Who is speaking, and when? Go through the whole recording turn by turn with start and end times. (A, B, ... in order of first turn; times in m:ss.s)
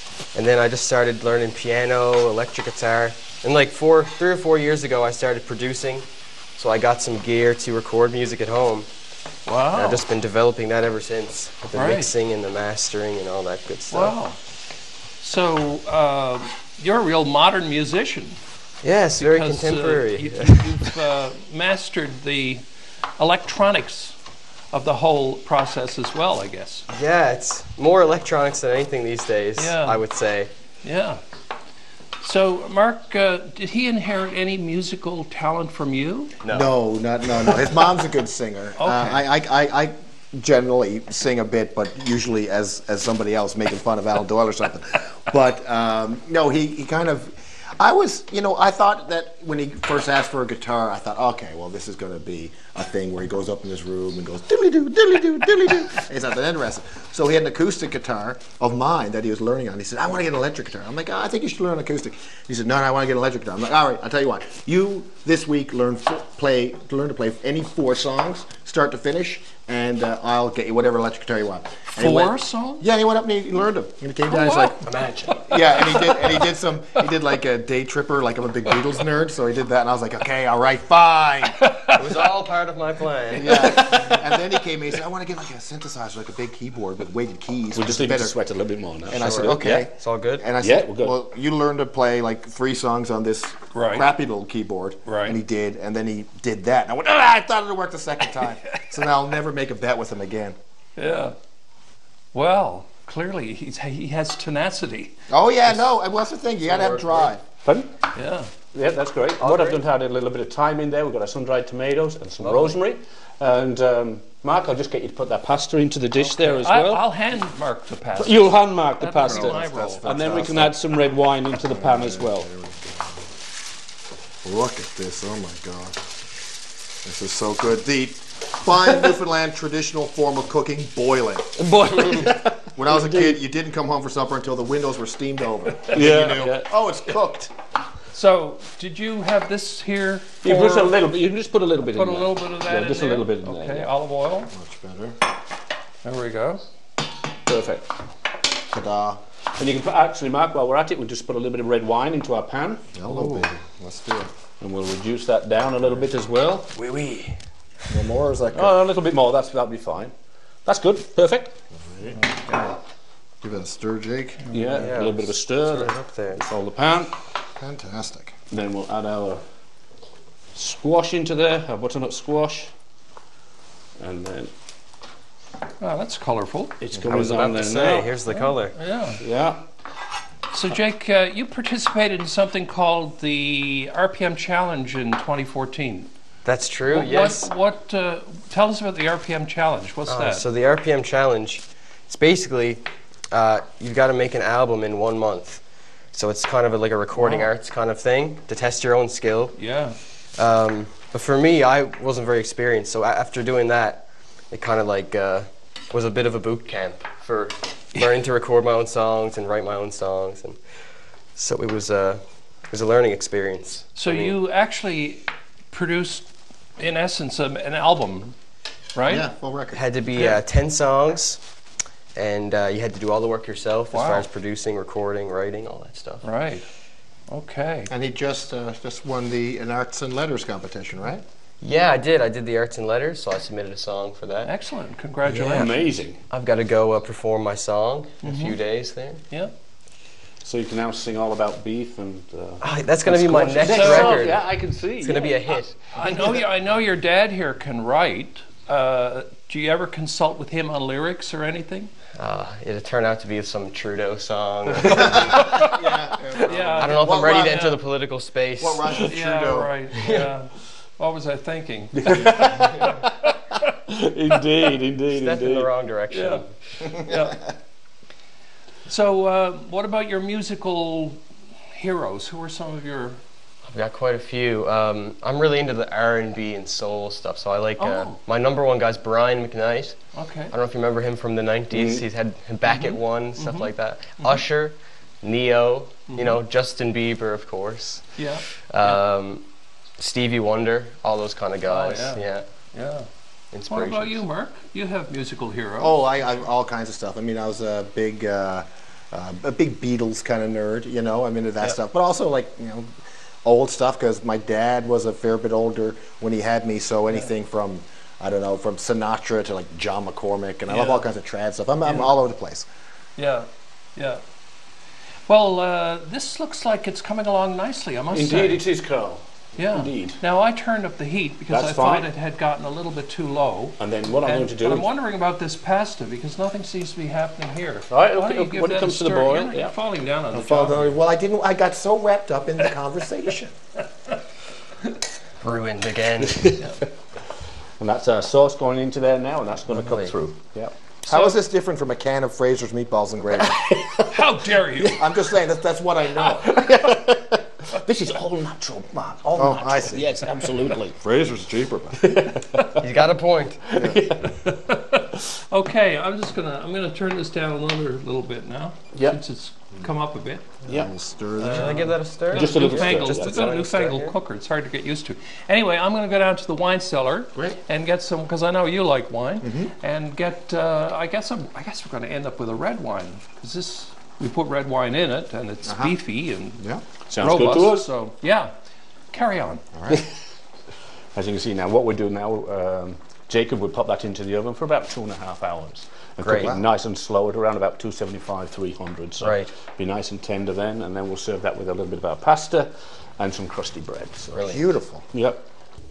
0:00.3-0:06.0 A
0:06.6-0:08.9 A
0:09.4-0:10.0 B
0:09.7-0:14.1 A
0:11.7-0:12.1 B
0:13.9-0:14.4 B
0:15.2-0:18.4 B
0:18.8-0:20.9 A
0:19.2-0:24.2 B
0:24.7-0:26.8 B
0:26.9-0:30.5 A
0:29.6-0:30.0 B
0:30.8-0:31.2 B
0:32.2-0:36.3 B
0:36.4-0:36.7 A
0:36.5-1:21.7 C
0:38.8-0:39.2 B
1:12.0-1:12.9 B
1:14.3-1:14.8 B
1:14.8-1:15.5 A
1:15.5-1:16.2 B
1:21.6-1:21.9 B
1:21.9-1:23.9 A
1:23.3-1:28.4 C
1:27.7-1:29.8 D
1:29.1-1:40.6 C
1:29.1-1:30.4 A
1:30.6-1:31.1 D
1:33.7-1:34.1 B
1:35.0-1:35.4 B
1:41.0-1:41.4 B
1:42.3-1:45.2 B
1:45.3-1:47.4 C
1:47.6-1:47.9 D
1:48.1-1:48.5 B
1:48.7-1:57.0 D
1:49.4-1:49.8 A
1:52.4-1:52.8 A
1:56.2-2:00.1 B
1:58.2-2:02.5 D
1:59.2-2:00.8 C
2:01.7-2:03.2 C
2:04.4-2:06.1 C
2:07.0-2:17.5 C
2:12.9-2:13.4 D
2:15.9-2:16.7 D
2:18.1-2:20.9 B
2:20.4-2:23.9 D
2:21.9-2:24.5 B
2:24.5-2:25.2 C
2:26.0-2:26.6 B
2:27.4-2:27.9 D
2:28.7-2:29.2 C
2:29.6-2:33.0 D
2:32.9-2:34.3 C
2:34.6-2:36.7 D
2:36.7-2:37.4 A
2:37.9-2:38.7 C
2:38.5-2:40.1 D
2:40.6-2:41.6 D
2:41.8-2:42.8 C
2:43.4-2:44.5 C
2:44.5-2:47.1 D
2:44.7-2:46.4 A
2:47.6-2:48.3 C
2:48.5-2:49.4 D
2:50.5-2:52.7 D
2:54.0-2:54.5 D
2:55.8-2:56.8 B
2:56.8-2:58.1 D
2:57.0-2:58.8 A
2:58.3-2:59.2 B
2:59.2-2:59.6 D
3:00.5-3:06.1 B
3:06.4-3:07.5 A
3:06.9-3:10.4 B
3:10.1-3:19.6 A
3:17.2-3:17.5 B
3:19.6-3:20.0 B
3:20.4-3:30.6 A
3:31.4-3:34.3 A
3:34.0-3:38.4 B
3:38.9-3:39.3 B
3:39.1-3:39.8 C
3:39.7-3:41.4 A
3:42.1-3:46.2 A
3:43.9-3:44.3 B
3:46.2-3:46.7 B
3:47.3-3:47.9 B
3:47.9-3:51.2 C
3:51.6-3:54.5 A
3:54.4-3:55.9 B
3:55.3-3:56.2 D
3:55.4-3:59.2 A
3:58.2-3:58.6 B
4:00.4-4:05.5 D
4:02.6-4:05.8 A
4:03.6-4:04.3 B
4:05.9-4:11.9 B
4:06.1-4:06.4 D
4:12.2-4:15.6 A
4:14.8-4:17.7 C
4:15.3-4:15.7 B
4:16.4-4:19.0 A
4:16.4-4:17.8 B
4:18.6-4:20.2 C
4:19.1-4:23.0 B
4:21.9-4:23.1 D
4:23.9-4:25.7 D
4:25.1-4:26.6 A
4:26.1-4:27.4 B
4:28.9-4:33.2 B
4:33.7-4:49.4 A
4:37.8-4:38.2 B
4:40.1-4:40.5 B
4:41.7-4:42.0 D
4:42.6-4:44.4 B
4:46.1-4:46.4 B
4:48.2-4:49.0 B
4:50.0-4:52.4 A
4:51.7-4:52.2 B
4:52.7-4:53.1 B
4:53.5-4:54.2 A
4:53.7-4:56.0 B
4:55.8-5:12.7 C
5:10.7-5:11.0 B
5:11.8-5:12.1 B
5:13.2-5:14.2 B
5:15.3-5:18.6 B
5:18.1-5:20.2 D
5:19.6-5:31.0 B
5:21.5-5:22.1 D
5:23.8-5:24.9 D
5:27.9-5:29.7 D
5:30.3-5:33.5 C
5:35.4-5:36.6 A
5:36.3-5:36.7 D
5:37.8-5:40.7 D
5:39.7-5:40.1 A
5:41.1-5:41.4 B
5:41.1-5:43.6 C
5:43.4-5:44.2 D
5:44.0-5:45.0 B
5:44.8-5:46.7 C
5:46.2-5:51.0 D
5:49.4-5:52.0 C
5:52.0-5:52.8 D
5:52.8-5:53.6 A
5:53.7-5:54.6 D
5:54.7-6:00.6 B
5:58.9-5:59.2 D
6:00.6-6:01.9 C
6:01.4-6:16.6 B
6:01.4-6:04.1 A
6:02.3-6:03.6 D
6:09.4-6:09.7 C
6:15.6-6:15.9 C
6:17.1-6:17.9 D
6:17.2-6:18.5 B
6:19.1-6:19.6 B
6:19.7-6:20.0 C
6:21.1-6:34.4 D
6:26.2-6:26.6 A
6:29.2-6:29.5 A
6:34.3-6:34.6 A
6:34.5-6:35.0 C
6:35.1-6:35.4 D